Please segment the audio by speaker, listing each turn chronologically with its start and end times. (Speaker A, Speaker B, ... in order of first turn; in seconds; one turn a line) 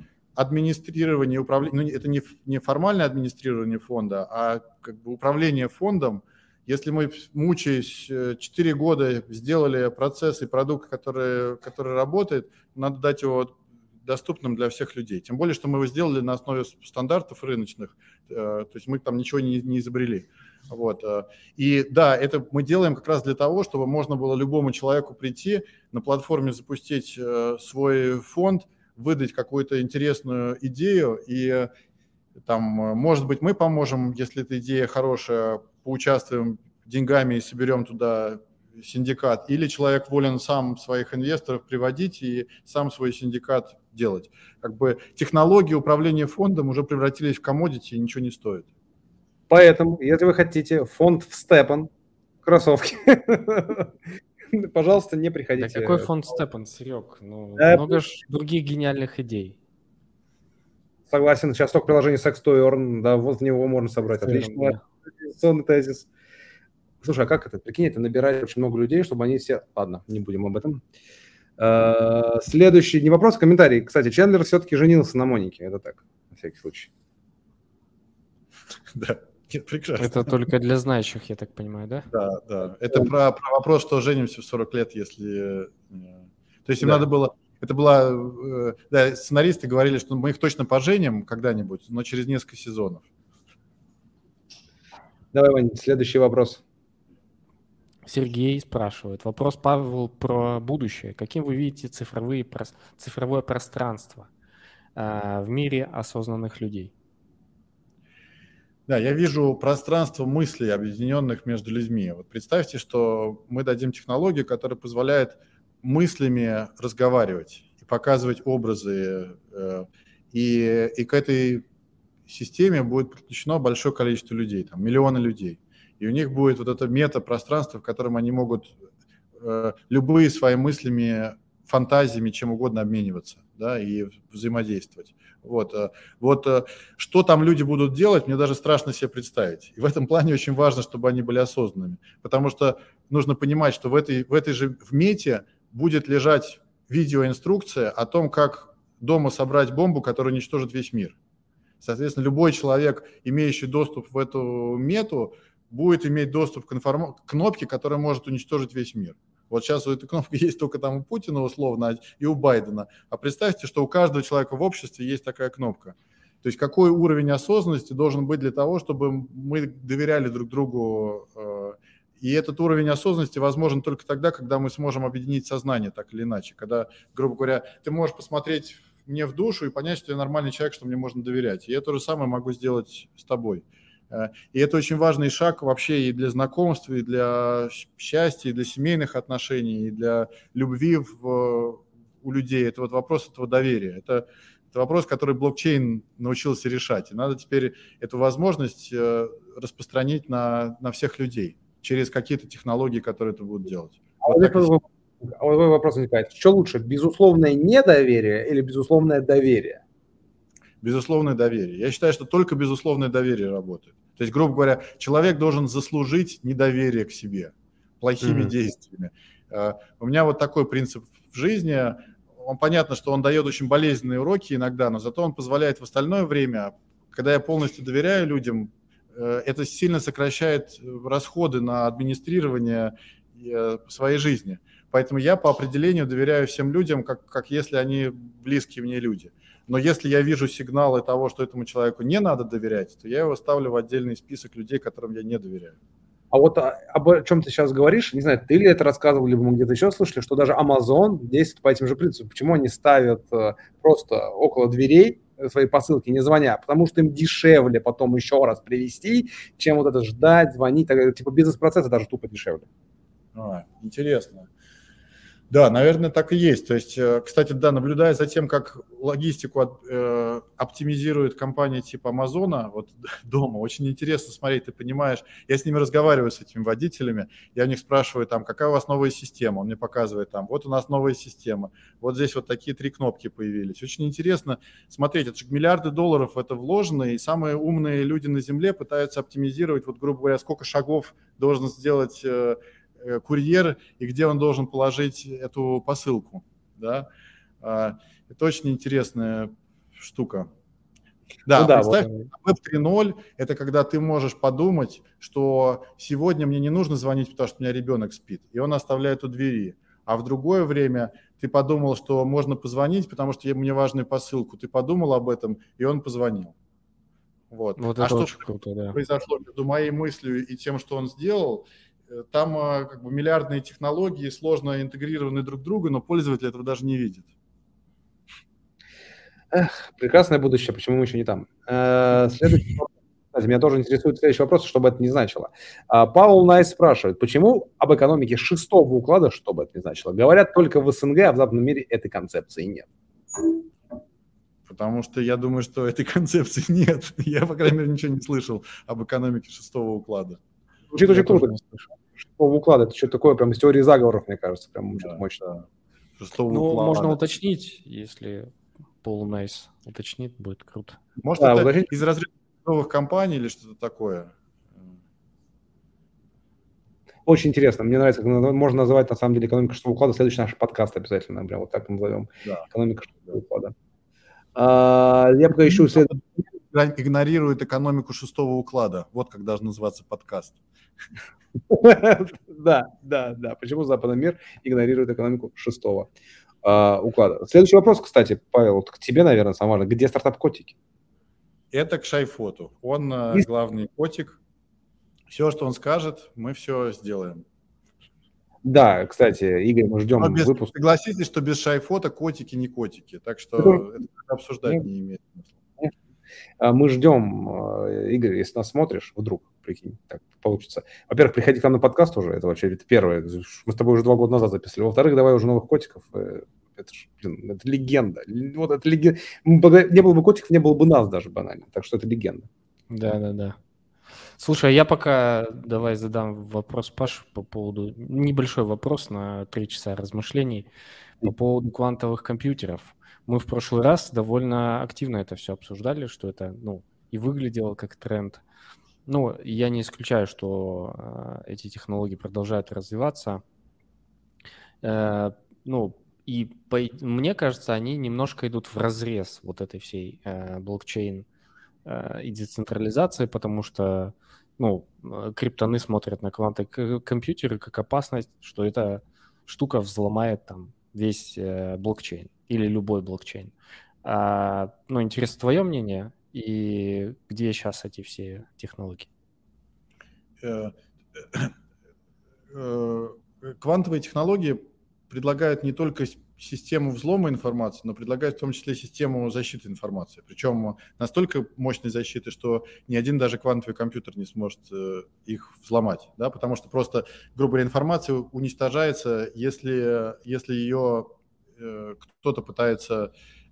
Speaker A: 0.3-31.7
Speaker A: 32.4-48.7
Speaker B: 49.5-51.9
Speaker B: 52.4-53.9
Speaker B: 54.5-56.1
Speaker C: 55.6-59.5
Speaker B: 57.6-58.0
Speaker B: 61.1-66.1
Speaker C: 64.2-64.8
Speaker B: 67.0-70.8
Speaker B: 71.6-76.9
Speaker A: 78.9-80.3
Speaker C: 80.0-82.1
Speaker A: 82.1-93.0
Speaker B: 95.3-96.6
Speaker C: 98.0-104.3
Speaker C: 105.0-106.9
Speaker A: 108.9-121.6
Speaker A: 122.3-128.7
Speaker A: 129.4-151.2
Speaker A: 151.8-204.7
Speaker B: 204.2-209.8
Speaker A: 210.8-245.8
Speaker B: 218.2-218.5
Speaker B: 246.3-262.7
Speaker A: 263.3-264.5
Speaker A: 265.5-297.1
Speaker A: 297.6-300.5
Speaker A: 301.5-316.5
Speaker B: 301.6-302.1
Speaker A: 317.5-318.4
Speaker C: 317.8-319.0
Speaker A: 318.9-327.3
Speaker B: 329.5-342.9
Speaker A: 344.7-350.4
Speaker B: 350.9-355.5
Speaker A: 356.2-357.3
Speaker C: 356.5-358.5
Speaker C: 359.0-361.0
Speaker A: 361.2-364.9
Speaker B: 361.4-361.9
Speaker B: 367.2-373.7
Speaker B: 374.5-376.1
Speaker A: 375.7-376.2
Speaker A: 376.7-380.6
Speaker B: 381.7-386.1
Speaker B: 386.6-390.7
Speaker A: 391.7-394.4
Speaker A: 395.3-397.4
Speaker B: 398.6-400.7
Speaker A: 400.2-405.6
Speaker B: 406.6-422.5
Speaker C: 422.9-423.6
Speaker C: 424.4-430.7
Speaker C: 431.2-438.4
Speaker C: 439.1-443.4
Speaker C: 444.8-451.2
Speaker C: 451.8-463.5
Speaker C: 464.0-469.1
Speaker A: 470.4-471.5
Speaker A: 472.5-493.1